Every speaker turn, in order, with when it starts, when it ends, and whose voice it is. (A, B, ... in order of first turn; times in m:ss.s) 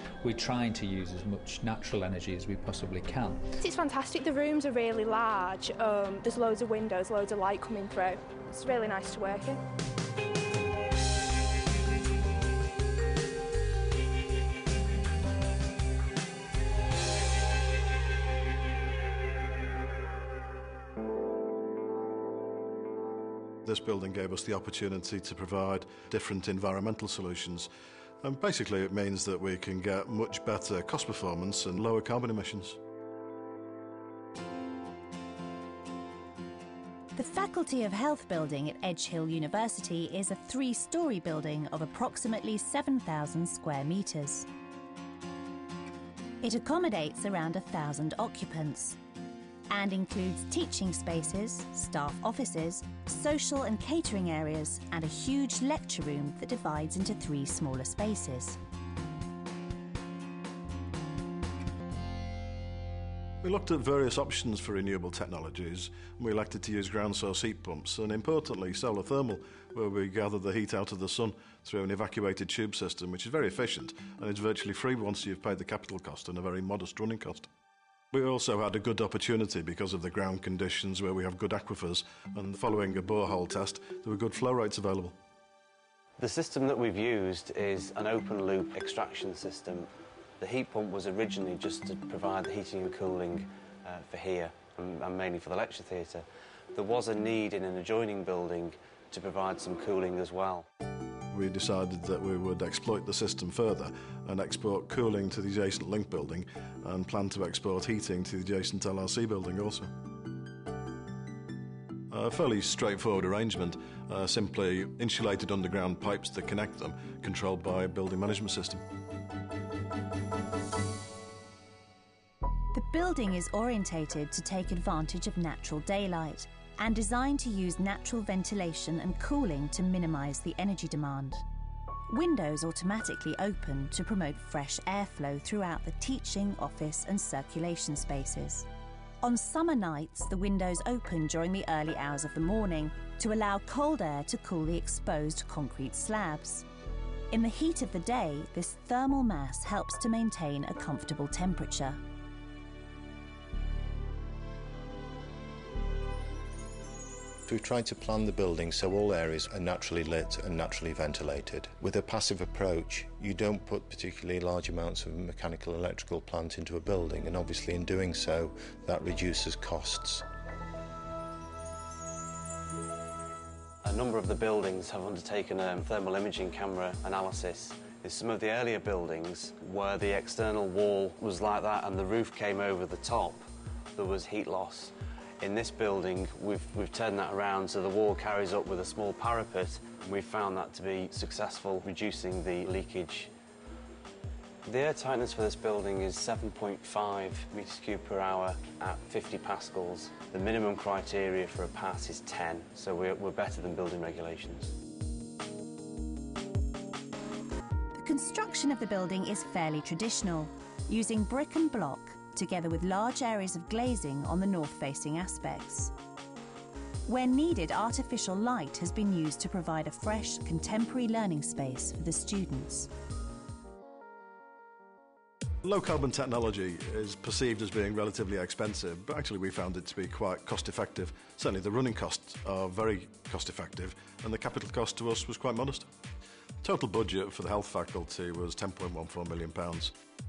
0:00.2-0:03.5 A
0:03.6-0:09.6 B
0:23.6-0:27.7 C
0:28.2-0:32.8 C
0:37.2-0:44.5 D
0:46.4-0:49.0 D
0:49.7-0:58.6 D
1:03.4-1:17.5 C
1:18.1-1:25.2 C
1:26.2-1:29.9 E
1:30.4-1:40.7 E
1:41.3-1:49.9 C
1:52.1-1:58.8 C
2:02.7-2:11.4 D
2:12.1-2:18.7 D
2:19.2-2:26.7 D
2:27.3-2:32.0 D
2:37.5-2:50.2 F
2:53.8-3:03.4 E
3:04.0-3:13.3 E
3:14.6-3:24.7 E
3:27.9-3:35.9 D
3:37.1-3:42.9 D
3:45.6-3:55.9 C
3:56.6-3:59.9 C